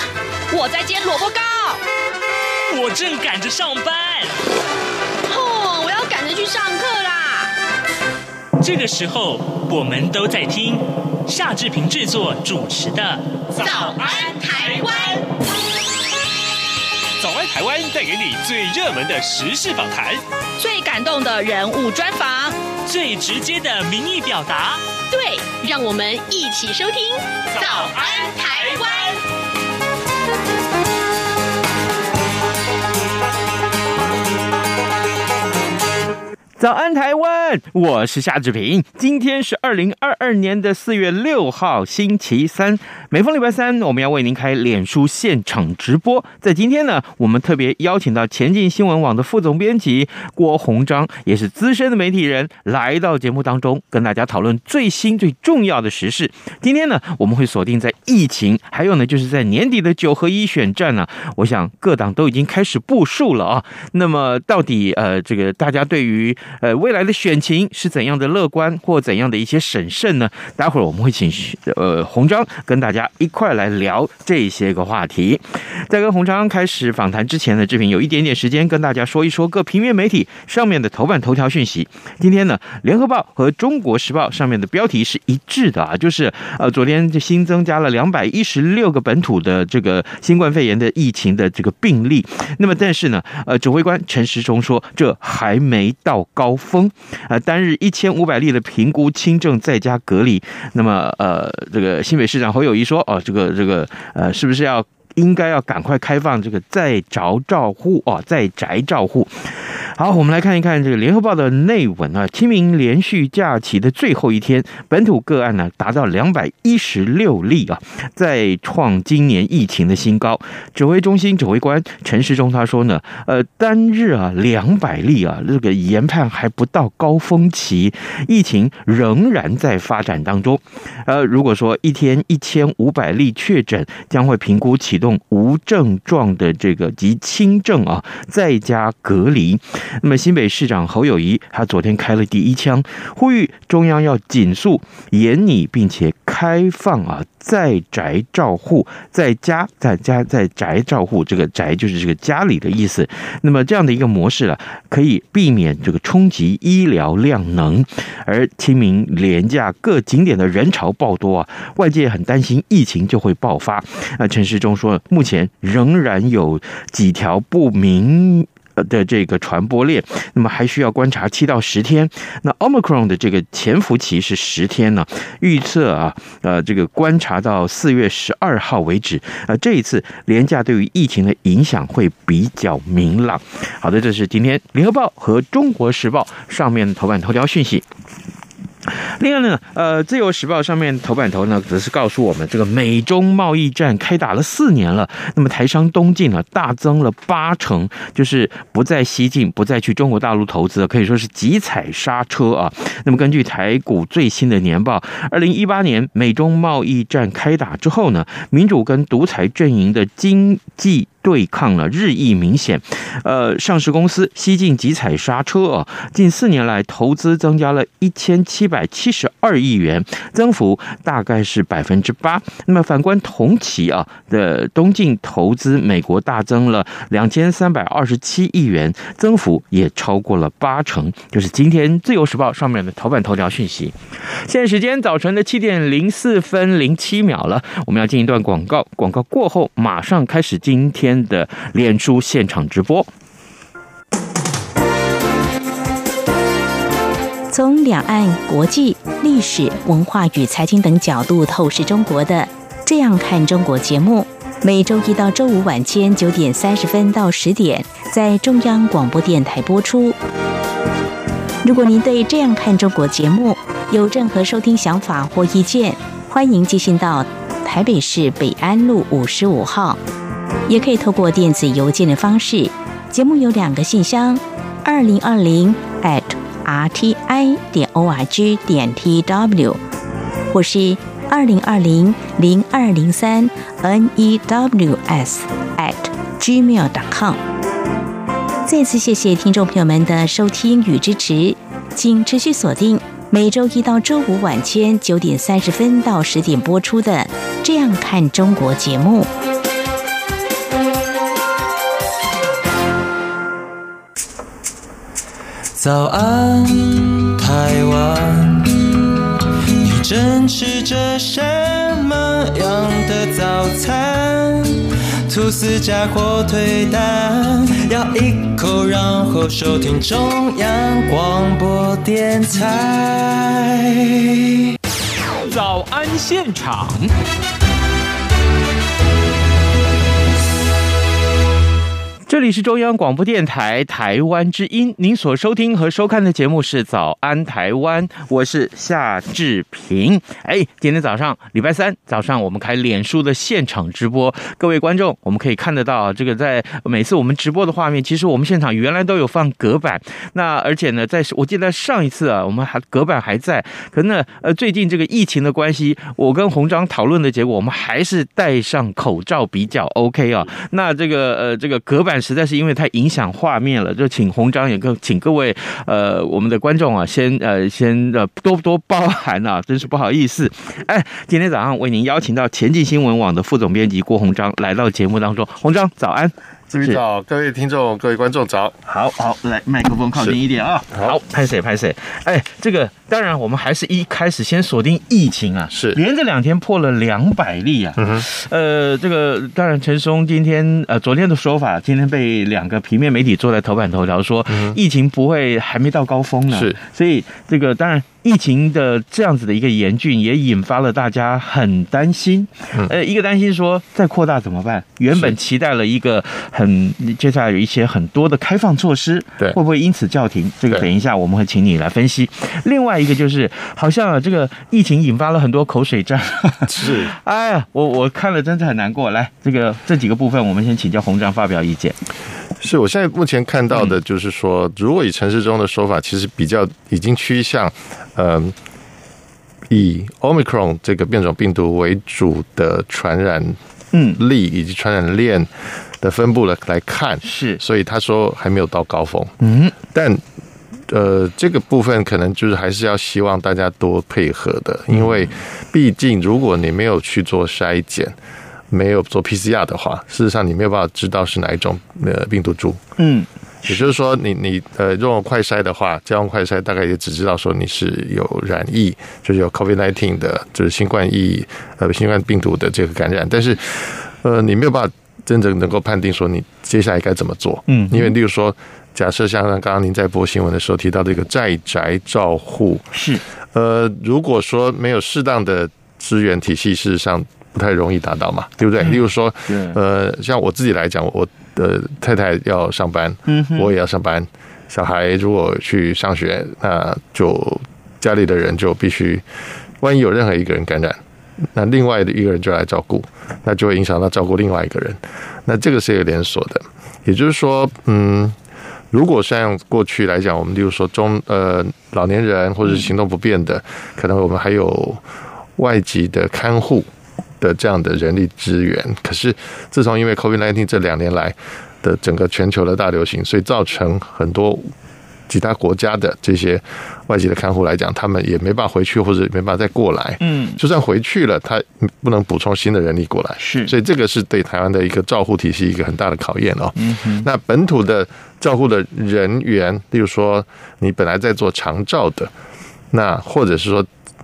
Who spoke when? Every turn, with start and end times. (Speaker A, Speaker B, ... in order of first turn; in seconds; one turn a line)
Speaker A: 0.5-1.8
Speaker B: 2.7-4.3
Speaker A: 5.3-7.5
Speaker B: 8.6-13.3
Speaker A: 13.6-15.2
Speaker C: 17.2-20.2
Speaker A: 20.6-22.6
Speaker B: 22.9-24.8
Speaker A: 25.1-29.2
Speaker D: 36.6-187.9
Speaker D: 188.9-243.1
Speaker E: 247.5-260.2
Speaker E: 261.6-270.0
Speaker E: 270.7-279.8
Speaker E: 280.5-287.4
Speaker E: 288.7-299.3
Speaker F: 305.8-308.9
Speaker F: 309.8-324.4
Speaker C: 325.5-327.0
Speaker D: 332.3-377.0
Speaker G: 376.7-378.8
Speaker D: 378.9-421.9
Speaker G: 380.9-381.2
Speaker G: 385.7-386.0
Speaker G: 388.0-388.3
Speaker G: 394.5-394.8
Speaker G: 396.5-396.8
Speaker G: 416.7-417.1
Speaker G: 422.6-428.6
Speaker G: 429.7-433.6
Speaker D: 433.9-434.2
Speaker G: 434.2-435.5
Speaker G: 436.0-440.2
Speaker D: 437.2-437.6
Speaker D: 439.4-439.8
Speaker G: 440.9-448.1
Speaker G: 448.7-452.8
Speaker D: 453.0-453.3
Speaker G: 453.7-472.9
Speaker D: 467.7-468.1
Speaker D: 472.9-473.2
Speaker G: 473.5-489.2
Speaker D: 478.8-479.8
Speaker D: 483.3-483.7
Speaker G: 489.8-498.4
Speaker G: 498.9-505.0
Speaker G: 505.6-506.9
Speaker G: 507.4-514.7
Speaker G: 515.3-532.3
Speaker D: 520.2-520.6
Speaker D: 523.4-523.7
Speaker D: 526.8-527.3
Speaker G: 532.9-533.9